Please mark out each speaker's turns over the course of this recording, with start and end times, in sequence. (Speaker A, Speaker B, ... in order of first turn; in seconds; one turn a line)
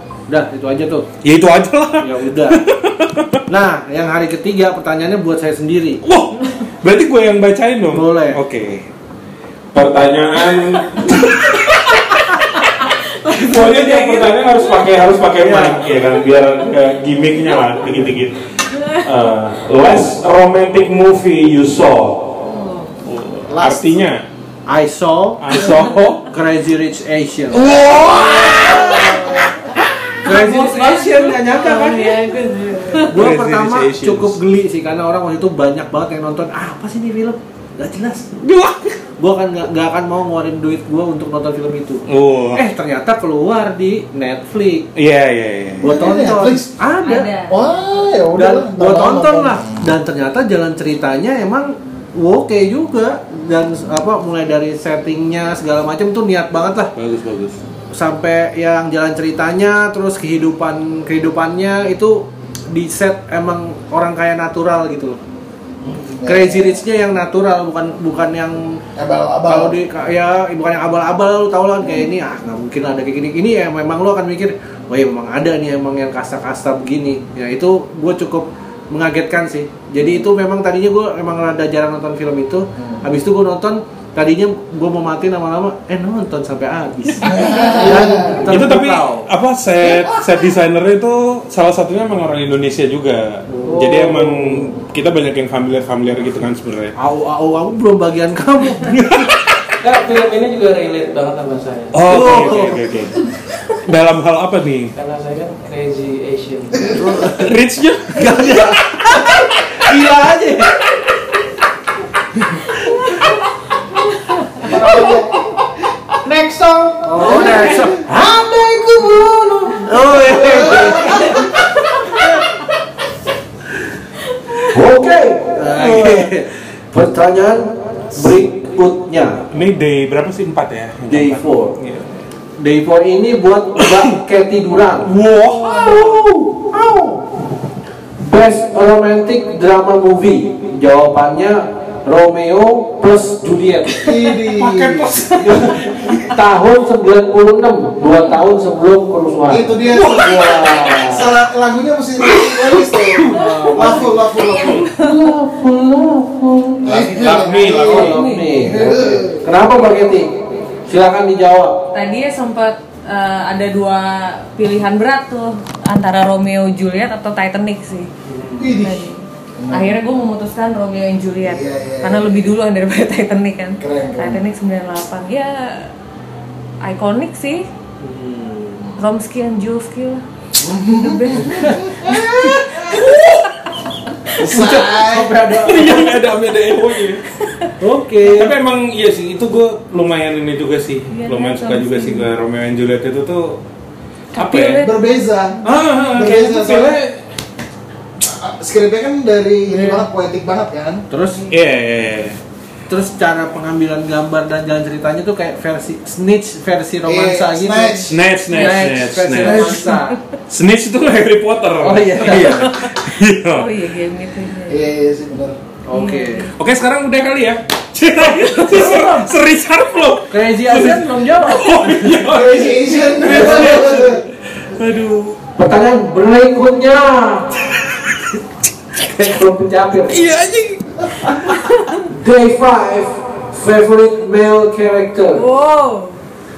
Speaker A: 0.3-1.1
Speaker B: 1.2-3.4
Speaker A: 2.0-2.6
Speaker A: 3.5-6.0
Speaker B: 6.0-8.8
Speaker A: 7.9-8.4
Speaker B: 9.7-12.4
Speaker A: 13.3-14.4
Speaker B: 13.3-22.5
Speaker A: 15.4-15.8
Speaker B: 23.0-24.3
Speaker A: 23.5-24.0
Speaker A: 24.7-25.8
Speaker B: 25.4-26.3
Speaker A: 26.3-27.7
Speaker B: 27.5-29.4
Speaker C: 28.3-29.1
Speaker A: 28.6-29.4
Speaker A: 30.2-32.3
Speaker D: 30.3-33.0
Speaker E: 30.3-33.0
Speaker A: 32.9-38.4
Speaker B: 33.1-34.4
Speaker B: 38.4-39.0
Speaker A: 39.2-44.9
Speaker B: 42.1-42.6
Speaker B: 45.0-46.0
Speaker A: 45.8-47.3
Speaker C: 45.8-46.7
Speaker E: 47.0-47.5
Speaker C: 47.5-49.9
Speaker A: 48.4-56.9
Speaker B: 57.0-57.6
Speaker A: 57.9-65.2
Speaker C: 65.9-66.8
Speaker A: 66.2-68.8
Speaker C: 69.0-69.8
Speaker A: 69.5-89.3
Speaker C: 87.2-88.5
Speaker B: 88.5-97.0
Speaker A: 93.5-94.7
Speaker A: 97.0-99.0
Speaker B: 98.8-99.4
Speaker D: 99.8-102.2
Speaker B: 101.9-103.2
Speaker A: 102.1-102.8
Speaker B: 103.8-104.9
Speaker D: 105.0-107.0
Speaker A: 106.9-107.5
Speaker B: 107.3-109.5
Speaker A: 108.1-110.8
Speaker A: 112.9-113.2
Speaker C: 114.6-115.3
Speaker A: 114.7-115.1
Speaker D: 116.2-117.6
Speaker A: 117.0-121.5
Speaker C: 120.2-121.4
Speaker A: 124.6-129.4
Speaker B: 125.7-126.3
Speaker B: 129.5-132.2
Speaker A: 131.1-131.8
Speaker A: 132.6-135.1
Speaker B: 135.1-136.3
Speaker A: 135.7-137.2
Speaker A: 138.2-144.2
Speaker C: 144.0-145.1
Speaker B: 144.4-146.3
Speaker A: 145.4-151.2
Speaker C: 149.5-154.9
Speaker B: 150.0-150.8
Speaker A: 153.2-161.9
Speaker B: 156.8-158.3
Speaker C: 156.8-158.1
Speaker E: 157.7-158.4
Speaker C: 158.6-159.4
Speaker E: 161.9-168.1
Speaker A: 168.2-168.7
Speaker C: 168.6-170.0
Speaker E: 168.7-175.9
Speaker C: 171.4-172.5
Speaker C: 173.8-174.4
Speaker E: 176.8-177.7
Speaker A: 178.0-179.0
Speaker E: 179.0-180.2
Speaker C: 180.6-182.9
Speaker E: 181.0-183.2
Speaker B: 182.9-183.4
Speaker C: 184.3-185.4
Speaker A: 184.4-186.2
Speaker B: 185.5-187.3
Speaker A: 187.8-188.5
Speaker B: 188.2-193.6
Speaker E: 191.1-192.3
Speaker E: 194.3-195.0
Speaker B: 194.3-194.9
Speaker C: 194.8-195.6
Speaker B: 195.6-197.2
Speaker C: 196.1-197.0
Speaker C: 198.2-201.1
Speaker A: 201.1-201.5
Speaker B: 201.5-202.4
Speaker A: 202.9-210.2
Speaker C: 207.1-208.2
Speaker B: 208.1-209.8
Speaker E: 208.5-208.9
Speaker C: 209.4-209.8
Speaker E: 209.5-209.9
Speaker B: 210.5-213.8
Speaker A: 211.8-212.7
Speaker E: 212.5-214.8
Speaker C: 214.7-215.6
Speaker A: 215.9-216.5
Speaker E: 215.9-216.5
Speaker B: 216.6-225.4
Speaker E: 218.4-219.2
Speaker A: 220.3-222.2
Speaker C: 222.2-224.2
Speaker A: 223.3-223.9
Speaker A: 225.6-227.5
Speaker A: 229.0-230.2
Speaker B: 230.1-231.4
Speaker A: 232.1-235.5
Speaker E: 235.4-236.2